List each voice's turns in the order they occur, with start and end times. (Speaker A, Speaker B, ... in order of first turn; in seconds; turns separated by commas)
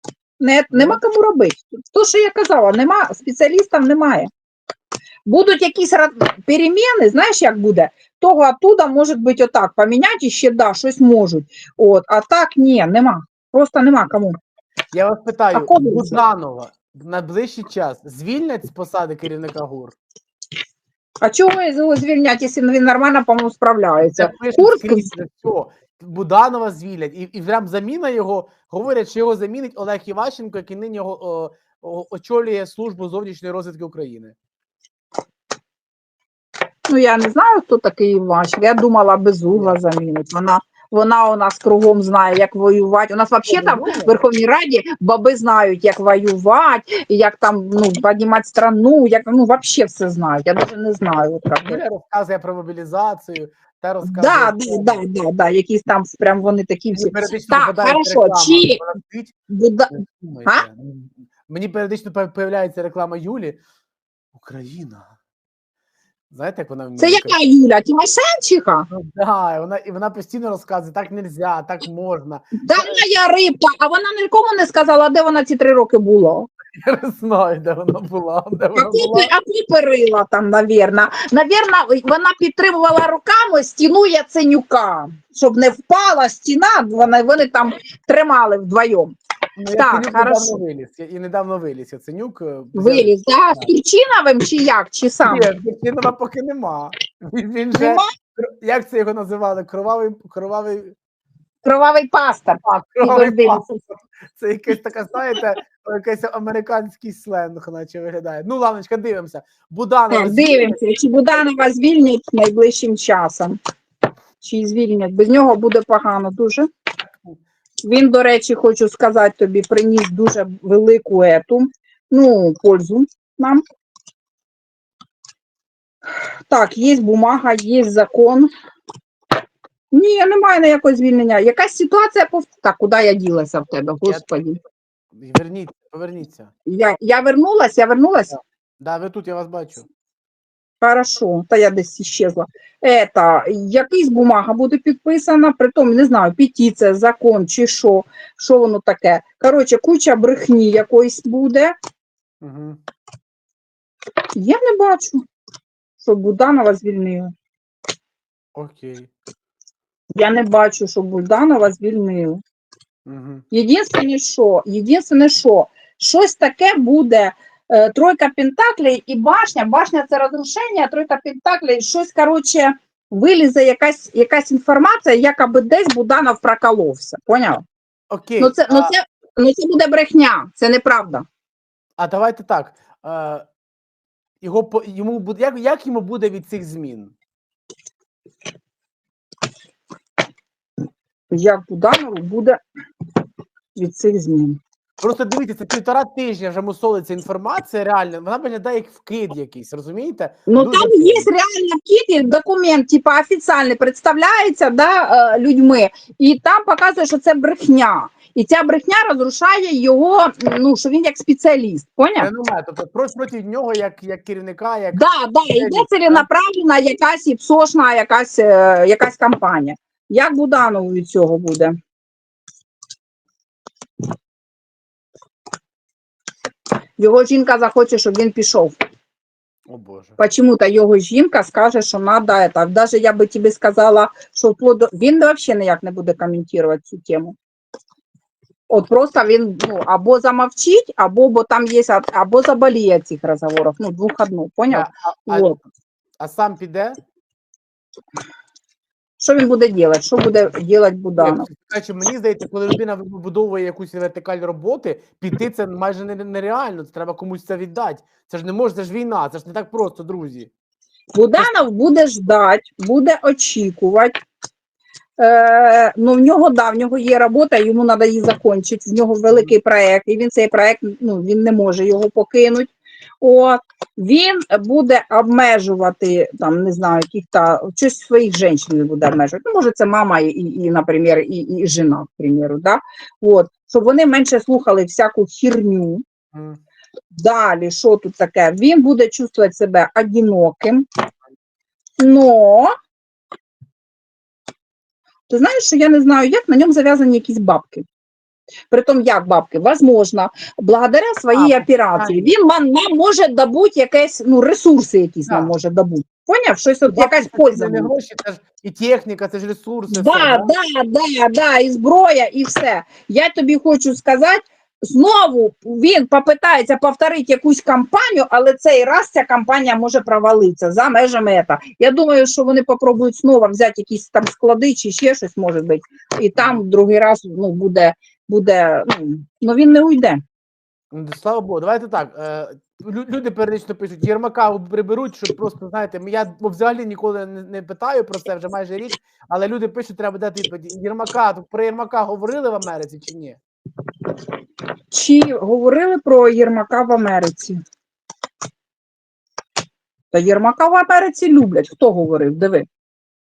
Speaker A: 0.4-4.3, Speaker B: 0.7-1.0, Speaker A: 5.2-14.3, Speaker B: 14.9-19.9, Speaker A: 15.5-16.2, Speaker A: 21.2-25.1, Speaker B: 24.1-34.4, Speaker A: 36.9-51.8, Speaker B: 39.5-39.8, Speaker B: 43.4-44.2, Speaker B: 51.6-55.0, Speaker A: 54.0-58.8, Speaker B: 56.9-59.3, Speaker A: 59.5-59.9, Speaker B: 59.9-63.6, Speaker B: 64.3-65.1, Speaker B: 66.3-67.3, Speaker A: 67.0-68.9, Speaker B: 68.9-73.0, Speaker A: 72.6-76.5, Speaker B: 76.8-79.3, Speaker A: 78.8-89.2, Speaker B: 89.6-93.7, Speaker A: 89.7-90.6, Speaker A: 92.7-95.5, Speaker B: 95.2-101.0, Speaker A: 97.8-98.1, Speaker A: 101.6-103.6, Speaker B: 102.6-110.8, Speaker A: 110.1-113.6, Speaker A: 114.4-116.7, Speaker A: 117.8-123.6, Speaker A: 126.1-128.5, Speaker A: 129.9-134.6, Speaker B: 134.0-134.6, Speaker B: 135.1-136.5, Speaker A: 136.7-138.3, Speaker B: 138.3-139.9, Speaker A: 140.8-151.7, Speaker B: 152.4-152.8, Speaker A: 154.3-155.2, Speaker A: 156.0-157.3, Speaker B: 158.6-159.1, Speaker A: 160.2-162.4, Speaker B: 163.1-163.4, Speaker A: 163.5-177.6, Speaker B: 178.1-178.9, Speaker A: 178.4-181.2, Speaker B: 182.0-183.4, Speaker B: 184.4-187.1, Speaker A: 191.3-192.6, Speaker A: 193.8-194.6, Speaker B: 195.0-201.3, Speaker A: 200.5-212.3, Speaker B: 212.2-216.2, Speaker A: 214.9-221.7, Speaker A: 227.0-228.7, Speaker B: 229.7-230.2, Speaker A: 230.2-237.3, Speaker A: 238.7-245.6, Speaker B: 244.7-245.5, Speaker B: 246.2-247.0, Speaker A: 249.2-251.4, Speaker B: 251.2-260.5, Speaker A: 261.1-264.1, Speaker A: 265.2-272.7, Speaker A: 273.2-286.0, Speaker B: 286.3-286.6, Speaker A: 287.1-290.8, Speaker A: 292.0-292.7, Speaker A: 295.3-297.9, Speaker A: 298.7-307.9, Speaker B: 301.3-302.3, Speaker B: 305.3-305.5, Speaker B: 306.9-310.5, Speaker A: 309.9-330.2, Speaker B: 326.4-326.6, Speaker B: 330.9-343.4, Speaker A: 344.9-347.6, Speaker A: 350.1-352.6